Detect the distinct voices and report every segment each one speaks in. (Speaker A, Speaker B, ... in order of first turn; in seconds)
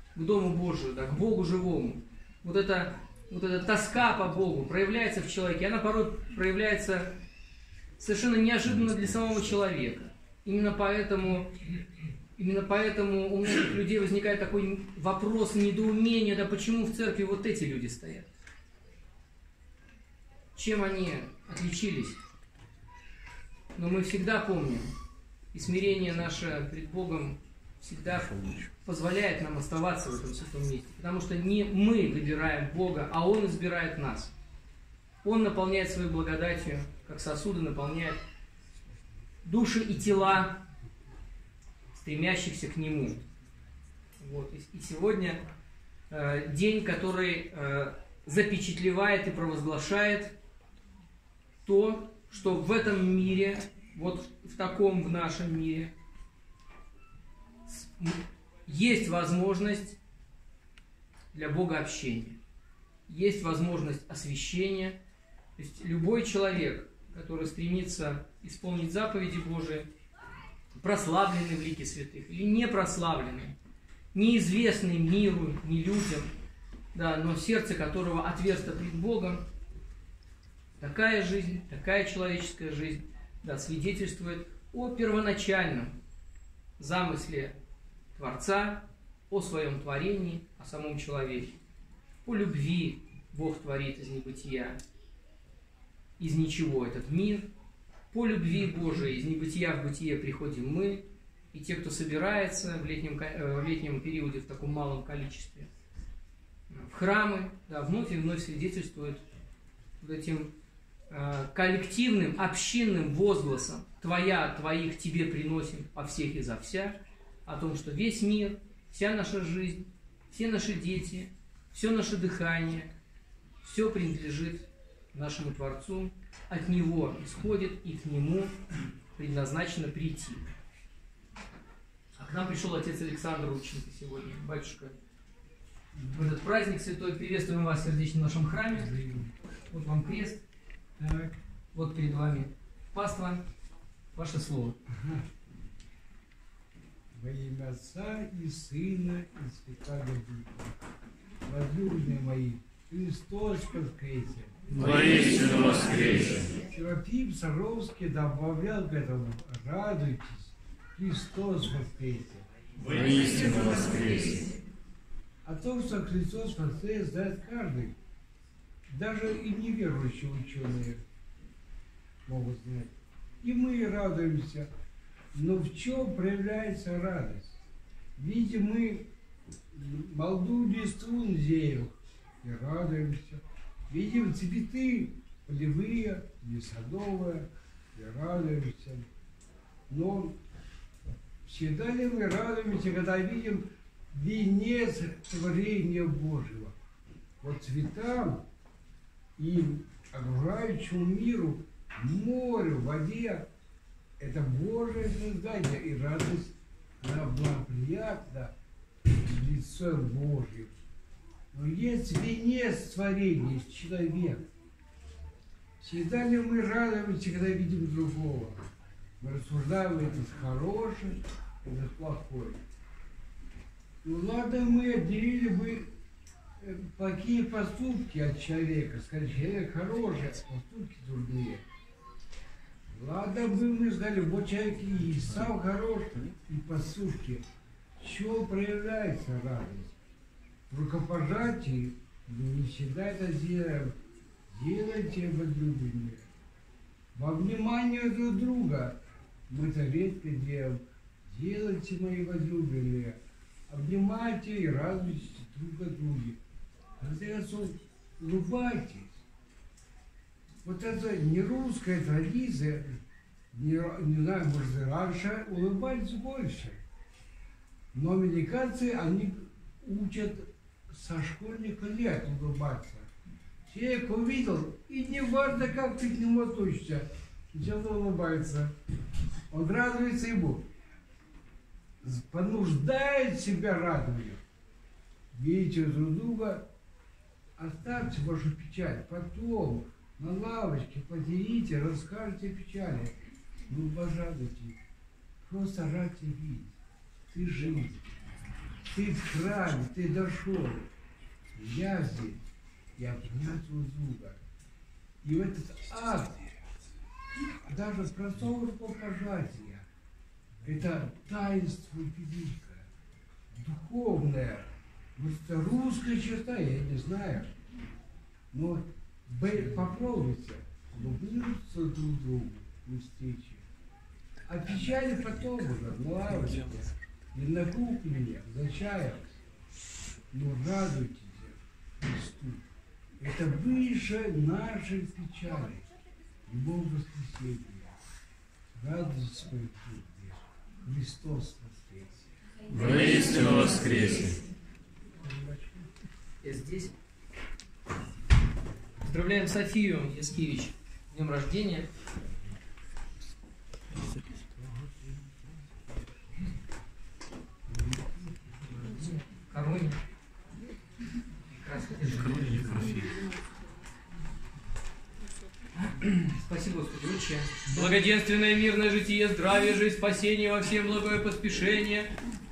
Speaker A: 0.1-7.2, 8.0-11.7, 12.3-18.3, 20.5-22.2, 23.7-24.9, 25.5-34.3, 35.2-38.2, 39.4-40.6, 42.0-43.2, 44.2-45.4, 46.1-50.4, 51.6-55.9, 57.7-60.0, 61.3-62.4, 63.1-65.0, 65.6-69.9, 70.7-73.6, 74.1-76.3, 76.9-79.4, 80.8-86.0, 86.8-87.6, 88.1-91.6, 92.2-94.8, 96.2-97.5, 98.1-105.7, 106.7-109.2, 110.0-110.5, 111.1-122.9, 123.6-128.6, 129.1-130.4, 132.2-134.9, 136.0-139.0, 139.7-140.4, 141.7-143.4, 144.1-144.8, 162.9-164.4, 346.4-346.9, 349.0-351.9, 358.7-360.0, 361.5-362.9, 365.8-372.1
Speaker B: 138.8-139.3, 141.0-141.4, 144.9-145.2, 147.1-150.7, 151.4-163.1, 165.4-168.0, 168.9-171.0, 172.2-174.7, 175.3-177.6, 178.2-179.1, 179.7-189.1, 189.9-190.4, 191.4-196.7, 197.4-198.5, 199.4-203.5, 204.2-208.5, 209.1-210.7, 211.5-214.4, 215.8-218.7, 219.2-222.6, 224.0-225.9, 226.6-231.6, 232.9-237.4, 238.0-240.0, 240.7-244.0, 244.5-246.3, 247.1-256.4, 257.0-259.2, 260.6-263.0, 263.5-266.8, 267.9-273.1, 273.7-278.7, 279.5-280.7, 282.0-284.4, 285.3-286.7, 287.6-293.1, 293.7-294.8, 295.4-296.8, 297.3-298.0, 298.9-300.9, 301.5-302.4, 303.0-304.4, 305.2-306.6, 307.6-309.9, 310.6-312.9, 313.5-317.5, 318.5-323.6, 324.5-329.4, 330.3-332.6, 333.2-335.9, 336.5-337.9, 338.7-342.8, 345.2-345.9, 357.8-358.1
Speaker C: 154.8-156.3, 162.9-164.3, 342.7-344.4, 362.4-363.1